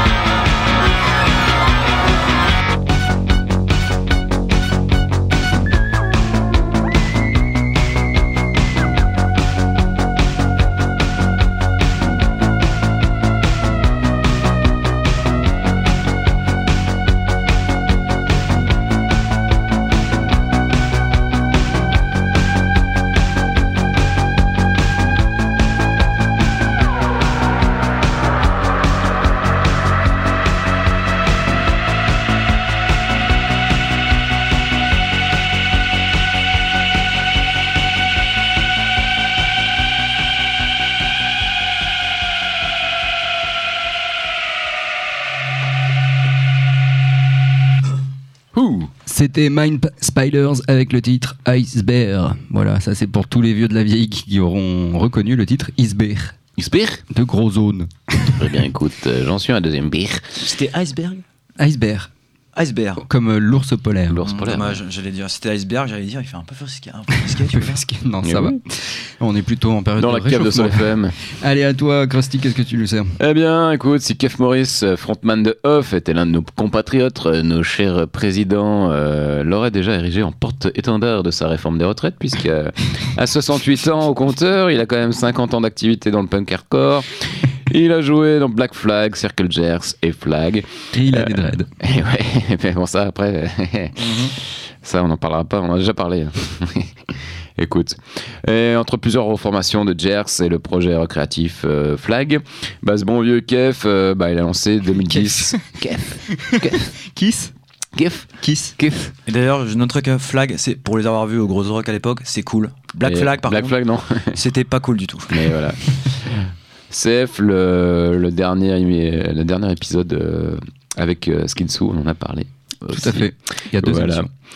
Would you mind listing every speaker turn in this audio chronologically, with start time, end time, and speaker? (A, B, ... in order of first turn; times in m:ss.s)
0:48.5-0:48.9 A
0:49.0-0:56.3 B
0:56.6-0:57.0 A
0:57.1-0:58.4 B
0:58.4-1:00.4 A
1:00.4-1:01.2 C
1:01.6-1:02.1 B
1:02.5-1:03.0 C
1:03.0-1:04.2 B
1:04.1-1:04.8 A
1:04.2-1:07.8 C
1:07.5-1:13.2 B
1:08.2-1:08.6 A
1:10.0-1:11.1 A
1:13.2-1:46.9 A
1:30.9-1:31.7 B
1:34.0-1:34.3 B
1:45.1-1:45.6 B
1:46.4-1:47.5 B
1:47.9-1:49.1 A
1:48.4-1:48.8 B
1:49.3-1:53.8 C
1:53.0-1:54.4 A
1:54.3-1:55.5 C
1:55.3-2:04.3 A
2:02.9-2:04.3 B